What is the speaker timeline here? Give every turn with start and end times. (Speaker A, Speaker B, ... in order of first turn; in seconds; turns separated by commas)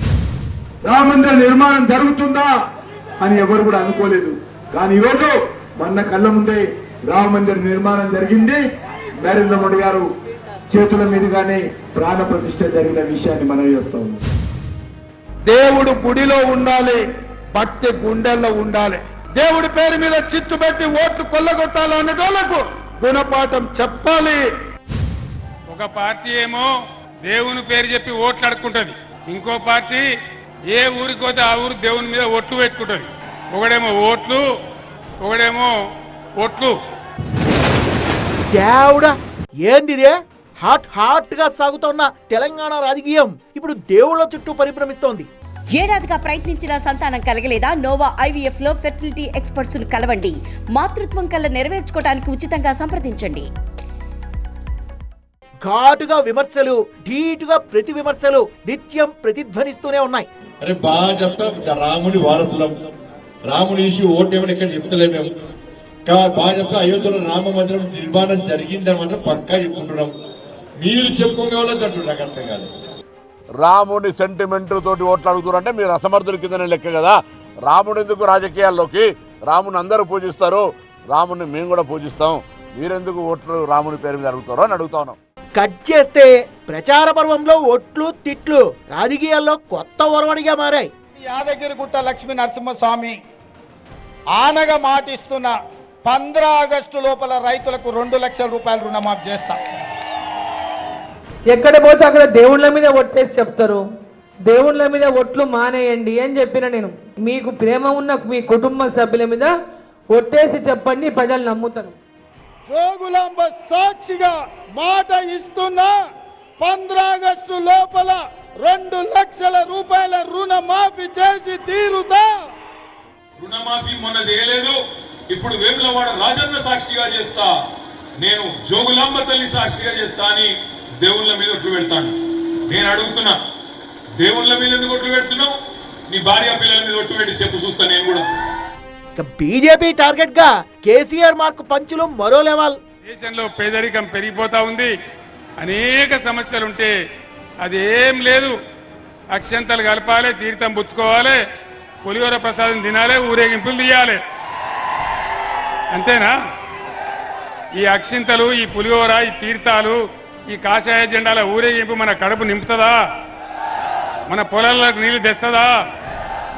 Speaker A: 0.8-2.5, Speaker A: 3.2-8.6, Speaker A: 9.2-10.1, Speaker A: 10.7-14.2, Speaker B: 15.5-17.0, Speaker B: 17.5-24.4, Speaker C: 25.7-26.7, Speaker C: 27.3-30.0, Speaker C: 30.7-34.4, Speaker C: 35.2-35.7, Speaker C: 36.4-36.7, Speaker D: 38.5-45.3, Speaker E: 45.7-53.5, Speaker D: 55.6-60.3, Speaker F: 60.6-62.8, Speaker F: 63.4-65.3, Speaker F: 66.0-70.2, Speaker F: 70.8-72.7, Speaker G: 73.6-85.2, Speaker D: 85.5-90.9, Speaker B: 91.2-93.2, Speaker B: 94.4-95.5, Speaker B: 96.0-99.6, Speaker H: 101.5-103.8, Speaker H: 104.5-109.5, Speaker H: 110.1-111.9, Speaker B: 112.7-115.9, Speaker B: 116.6-122.3, Speaker I: 123.4-124.8, Speaker I: 125.3-127.5, Speaker I: 128.2-132.2, Speaker I: 132.7-133.4, Speaker I: 134.2-135.5, Speaker I: 136.1-138.3, Speaker D: 139.2-142.8, Speaker C: 143.1-144.9, Speaker C: 145.6-146.9, Speaker C: 147.6-148.5, Speaker C: 149.3-151.4, Speaker C: 152.0-154.2, Speaker C: 155.9-156.3, Speaker C: 157.8-160.0, Speaker C: 160.5-163.0, Speaker C: 164.3-165.7